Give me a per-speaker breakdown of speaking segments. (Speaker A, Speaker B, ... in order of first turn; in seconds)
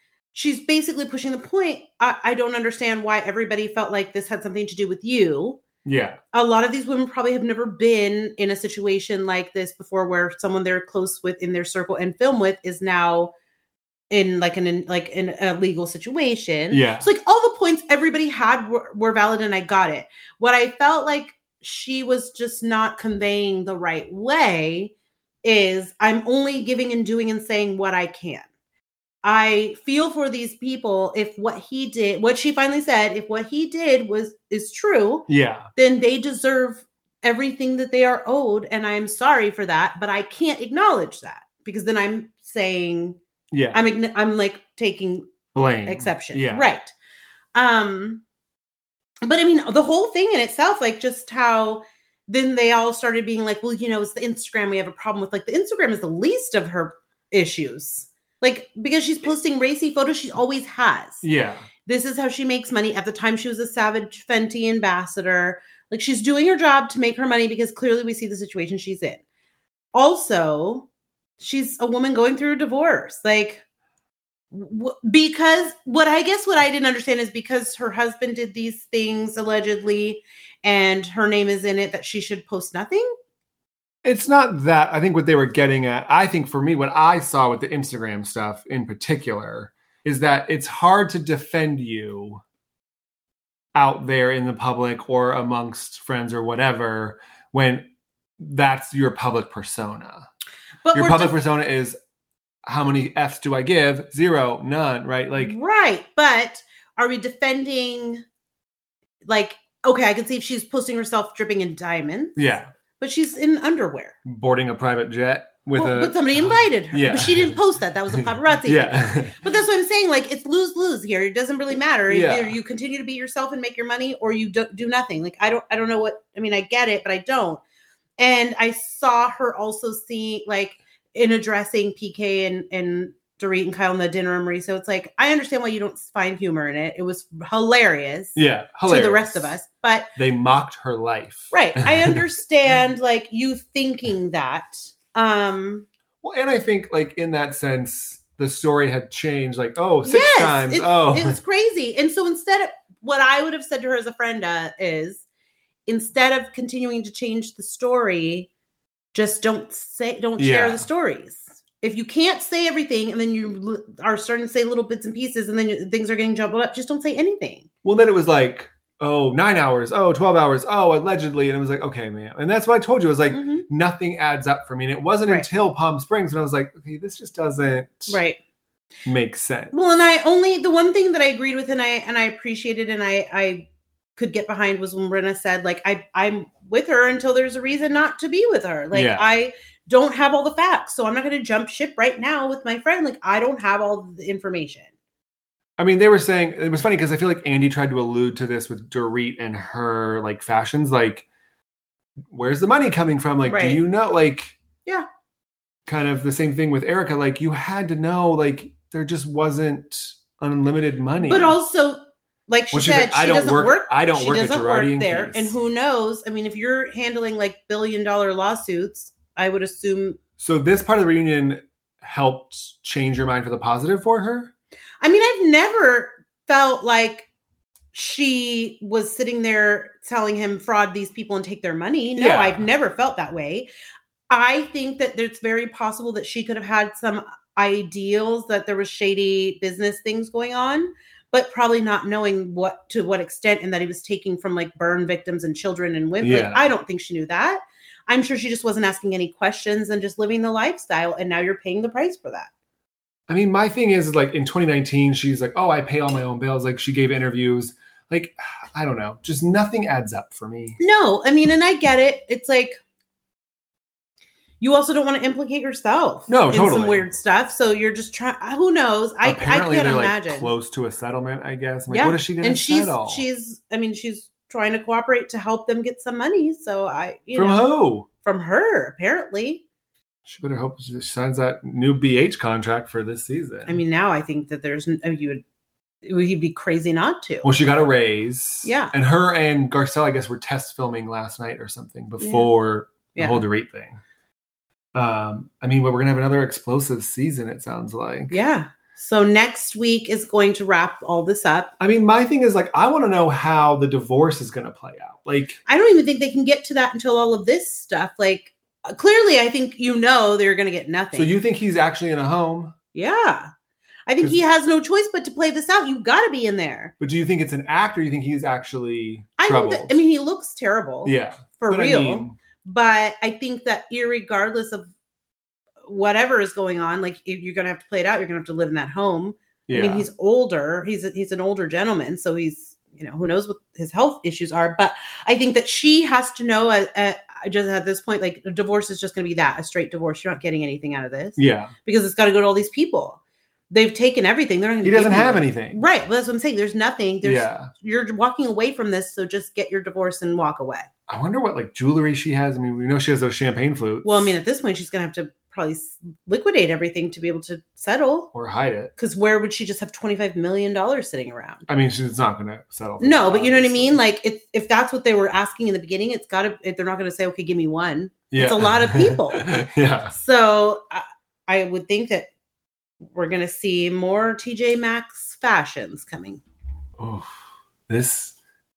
Speaker A: 0.3-5.6, 6.3-13.3, 14.1-24.9, 25.4-28.4, 29.2-43.2, 43.7-45.3, 45.9-46.9, 47.5-48.2, 49.2-61.2, 61.8-69.2, 69.9-70.9, 71.4-73.6, 74.5-83.1, 100.8-101.3, 105.4-108.2, 109.2-112.4, 113.0-114.2, 115.7-127.6, 128.2-140.1, 141.5-145.8, 150.0-155.2, 155.9-158.5, 159.1-167.7, 173.3-173.7, 178.1-178.4, 179.7-194.9, 203.4-203.8, 211.2-220.2, 225.0-227.3, 227.9-233.7, 234.3-252.5, 260.8-262.8, 264.6-270.5, 271.9-277.6, 278.2-279.6, 283.7-285.4, 286.0-287.5, 288.6-288.9, 292.2-292.5, 293.1-293.4, 298.3-301.7, 305.6-311.3, 312.9-313.5, 314.1-316.9, 319.4-324.9, 325.8-350.9, 354.0-358.3, 359.0-361.6, 363.0-372.3, 373.0-376.4
Speaker B: 5.8-6.2, 16.7-17.1, 35.3-35.7, 43.5-43.8, 45.5-46.7, 61.2-61.7, 84.0-92.4, 93.7-97.9, 98.4-100.3, 100.9-102.0, 102.7-105.5, 112.4-112.7, 114.2-117.6, 118.2-119.4, 122.1-122.6, 138.3-139.5, 140.2-142.2, 146.2-151.4, 160.4-160.8, 167.8-178.2, 179.1-179.7, 188.9-189.3, 195.8-201.2, 202.3-204.6, 205.9-211.6, 212.7-215.5, 220.4-224.5, 232.2-232.6, 246.2-246.7, 253.3-260.8, 266.3-267.1, 269.2-273.2, 277.3-278.1, 280.3-283.8, 287.4-294.0, 294.9-298.4, 301.8-305.6, 311.1-312.7, 317.0-320.0, 321.0-322.4, 329.7-330.1, 341.4-341.7, 344.8-345.8, 347.2-347.7, 351.1-354.3, 358.3-358.9, 361.7-364.0, 368.3-370.1, 377.0-377.3, 377.9-378.3